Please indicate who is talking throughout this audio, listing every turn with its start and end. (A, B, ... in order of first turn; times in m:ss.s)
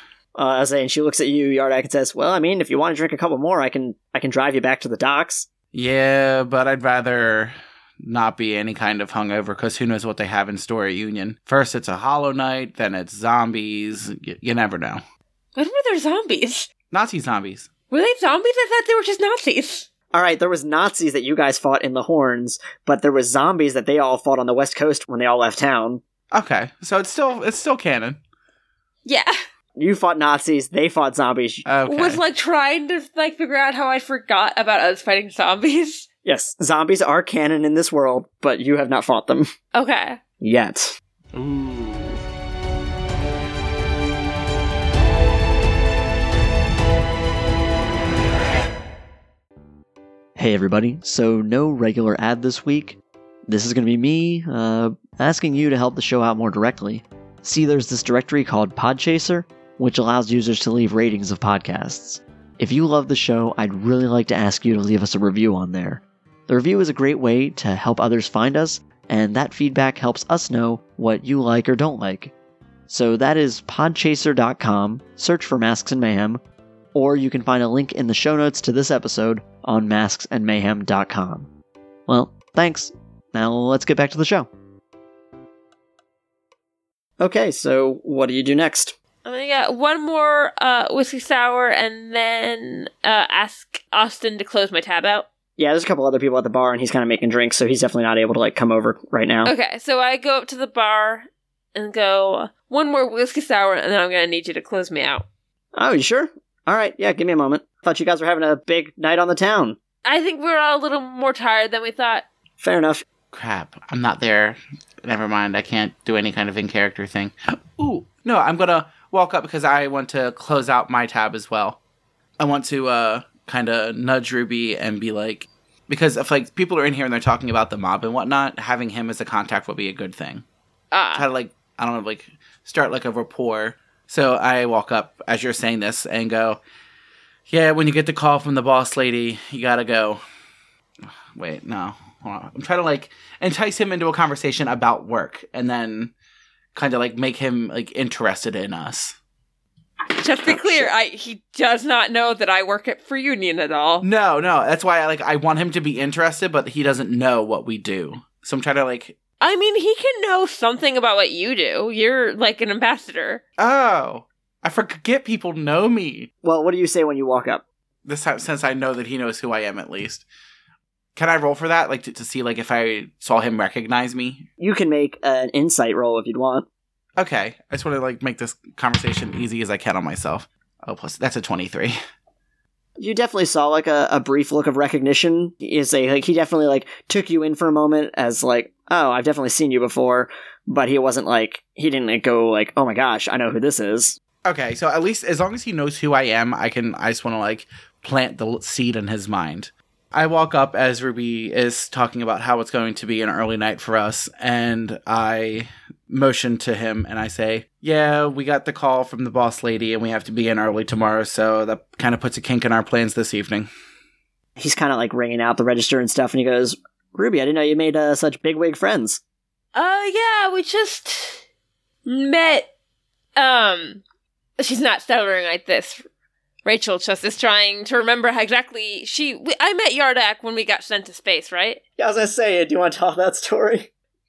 0:00.3-0:05.5 A
0:05.7-0:15.0 B
0:15.6-0:16.7 C
0:16.9-0:17.7 B
0:17.9-0:19.9 C
0:20.1-0:26.0 A
0:26.3-0:28.2 B
0:29.0-0:29.3 C
0:29.8-0:31.6 A
0:31.6-0:32.2 B
0:31.8-0:36.0 C
0:36.2-0:39.5 A
0:39.7-0:40.2 C
0:40.4-0:41.0 A
0:41.3-0:42.1 B
0:50.4-1:12.3 A
1:12.9-1:16.4 A
1:16.9-1:21.5 A
1:22.1-1:24.5 A
1:27.2-1:28.9 A
1:29.2-1:35.2 C
1:35.6-1:39.5 A
1:39.4-1:45.2 C
1:45.7-1:49.8 A
1:50.0-1:52.2 C
1:52.6-1:53.0 A
1:53.3-2:01.8 B
2:02.4-2:10.4 B
2:10.9-2:11.2 C
2:11.1-2:16.6 B
2:17.5-2:20.2 B
2:21.3-2:26.1 B
2:26.7-2:29.2 B
2:30.1-2:34.0 C
2:34.0-2:39.2 B
2:39.4-2:43.4 C
2:43.6-2:46.3 B
2:46.4-2:47.6 A
2:48.0-2:50.2 B
2:51.2-2:54.4 B
2:54.6-2:56.6 A
2:57.2-3:02.0 B
3:03.0-3:14.2 A
3:14.4-3:33.7 B
3:34.6-3:39.2 A
3:39.7-3:41.4 C
3:42.0-3:42.7 C
3:43.4-3:44.0 C
3:44.6-3:46.0 C
3:46.6-3:51.8 C
3:52.0-3:53.9 A